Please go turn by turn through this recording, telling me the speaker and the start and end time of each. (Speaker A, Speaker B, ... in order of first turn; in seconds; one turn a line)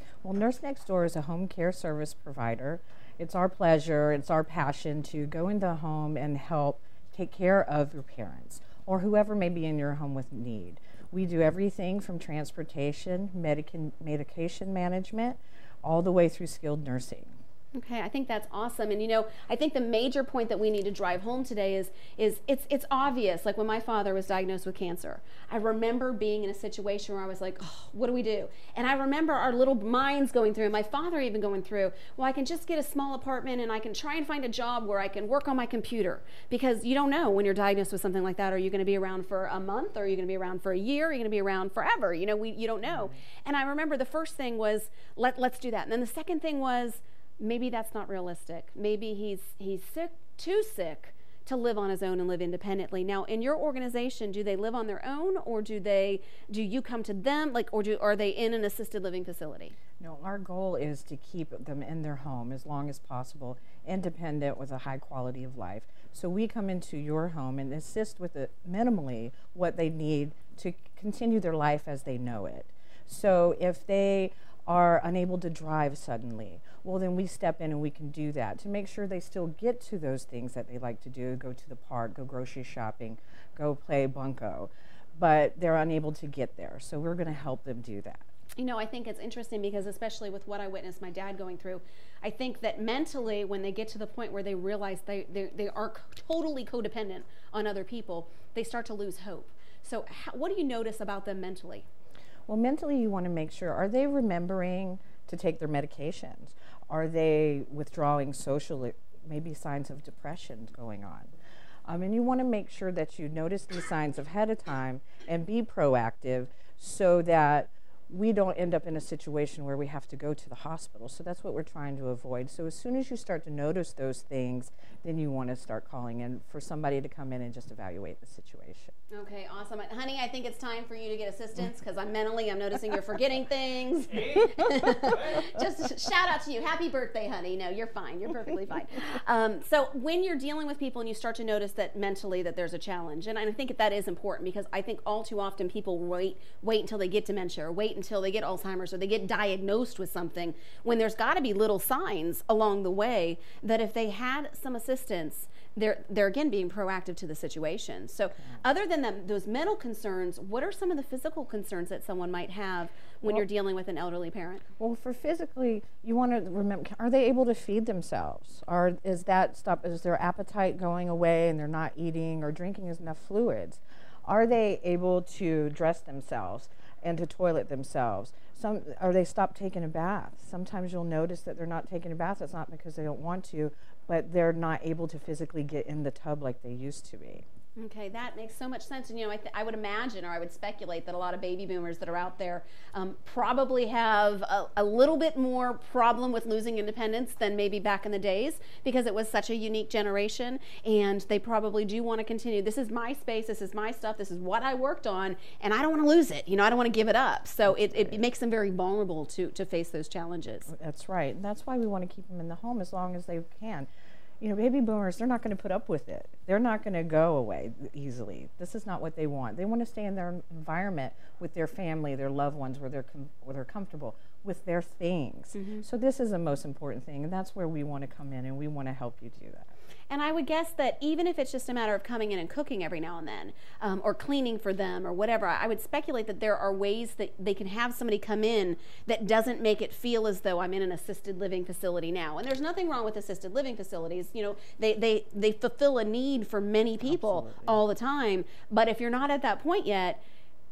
Speaker A: 0.2-17.4
Speaker B: 17.7-59.8
Speaker A: 60.0-88.3
Speaker B: 88.5-101.8
Speaker A: 102.5-111.3
Speaker A: 111.8-128.9
Speaker B: 129.1-164.6
Speaker A: 164.8-187.4
Speaker B: 187.8-210.7
Speaker A: 207.7-208.2
Speaker A: 210.7-213.9
Speaker A: 214.4-229.7
Speaker B: 225.5-225.8
Speaker B: 230.1-250.2
Speaker A: 247.0-247.8